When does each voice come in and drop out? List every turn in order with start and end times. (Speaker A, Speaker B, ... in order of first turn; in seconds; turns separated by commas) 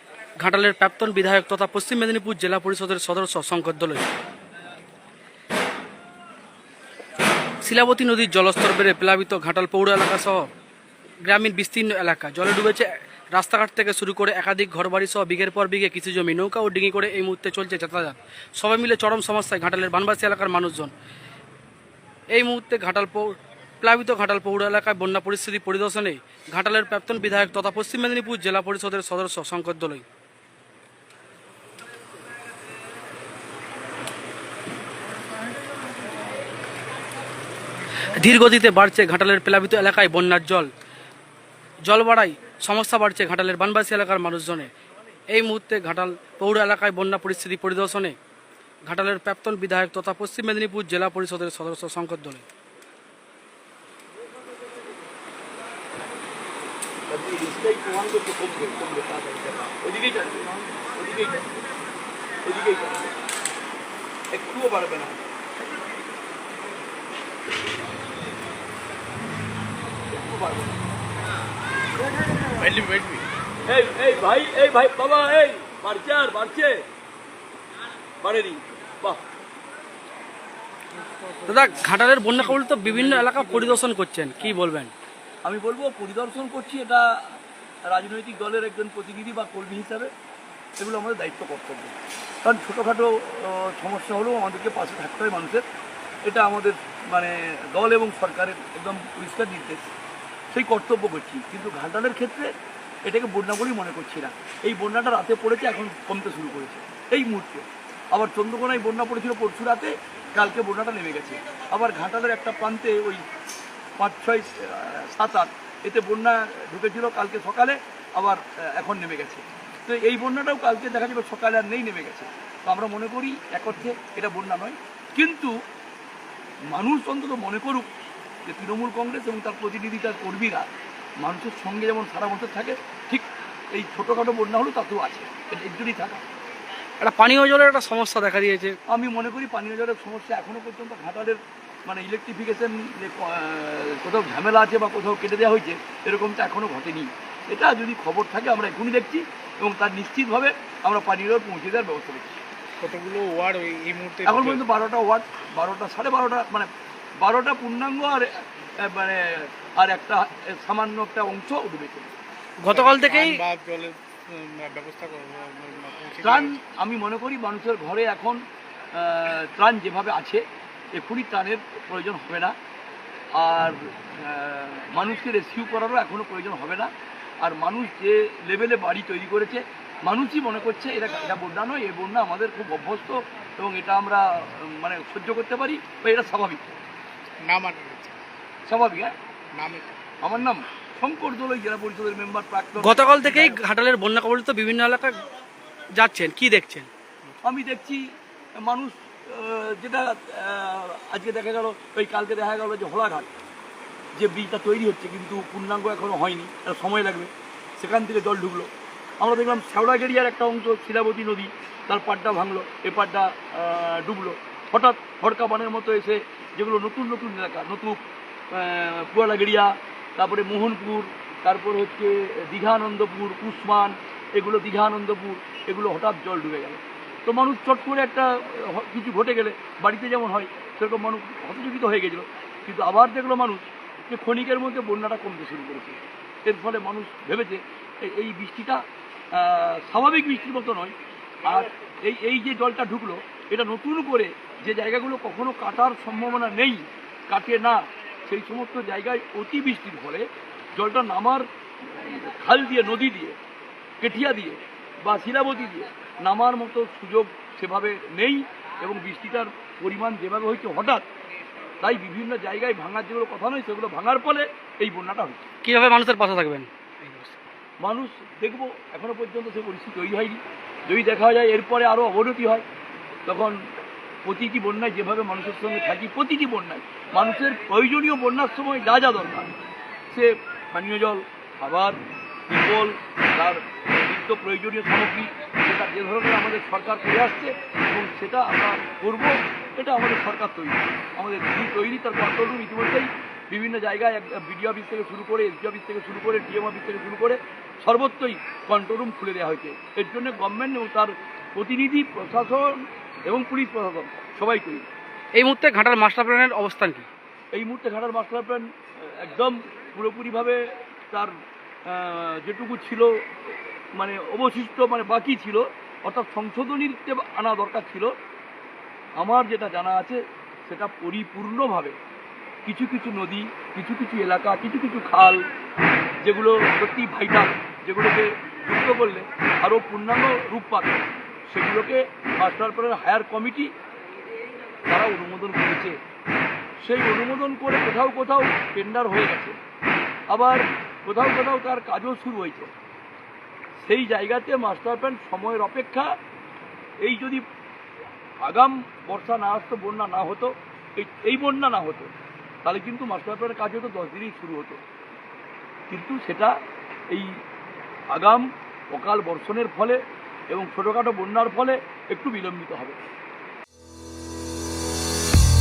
Speaker A: 0.4-4.0, Speaker A: 7.6-10.5, Speaker A: 11.2-20.9, Speaker A: 22.3-30.0, Speaker A: 38.2-40.7, Speaker A: 41.9-44.7, Speaker A: 45.3-48.1, Speaker A: 48.9-52.4, Speaker B: 57.1-61.4, Speaker B: 62.4-63.1, Speaker B: 64.3-65.2, Speaker B: 70.1-70.8, Speaker C: 72.5-73.2, Speaker B: 73.7-76.8, Speaker B: 78.2-79.2, Speaker C: 81.1-81.8, Speaker A: 81.5-84.9, Speaker B: 82.8-83.8, Speaker B: 85.4-87.2, Speaker B: 87.8-90.1, Speaker B: 90.8-95.6, Speaker B: 96.2-99.9, Speaker B: 100.5-102.5, Speaker B: 103.0-113.2, Speaker B: 114.0-125.5, Speaker B: 126.7-127.9, Speaker B: 128.4-136.2, Speaker A: 137.0-138.8, Speaker B: 138.9-152.4, Speaker C: 152.8-154.6, Speaker B: 154.2-162.2, Speaker A: 162.6-163.4, Speaker C: 162.7-166.6, Speaker B: 166.2-168.4, Speaker B: 168.9-172.6, Speaker B: 173.3-186.8, Speaker C: 187.4-188.2, Speaker B: 188.7-189.1, Speaker C: 189.5-190.0, Speaker B: 190.2-193.6, Speaker A: 192.8-195.2, Speaker A: 195.9-196.9, Speaker B: 197.4-198.0, Speaker B: 198.6-203.3, Speaker B: 204.2-238.8, Speaker B: 239.3-253.4, Speaker B: 254.0-261.1, Speaker B: 261.8-265.4, Speaker A: 265.6-267.4, Speaker B: 267.8-272.6, Speaker B: 273.3-273.6, Speaker B: 274.2-279.5, Speaker B: 280.1-304.9, Speaker A: 305.4-307.1, Speaker B: 307.5-311.3, Speaker B: 311.9-318.1, Speaker B: 319.2-322.0, Speaker B: 322.6-325.4, Speaker B: 326.2-333.7, Speaker B: 334.9-336.0, Speaker B: 336.8-339.6, Speaker B: 340.3-342.7, Speaker B: 343.8-346.1, Speaker B: 347.0-347.4, Speaker B: 348.4-354.8, Speaker B: 355.9-356.5, Speaker B: 357.1-357.4, Speaker B: 358.1-363.0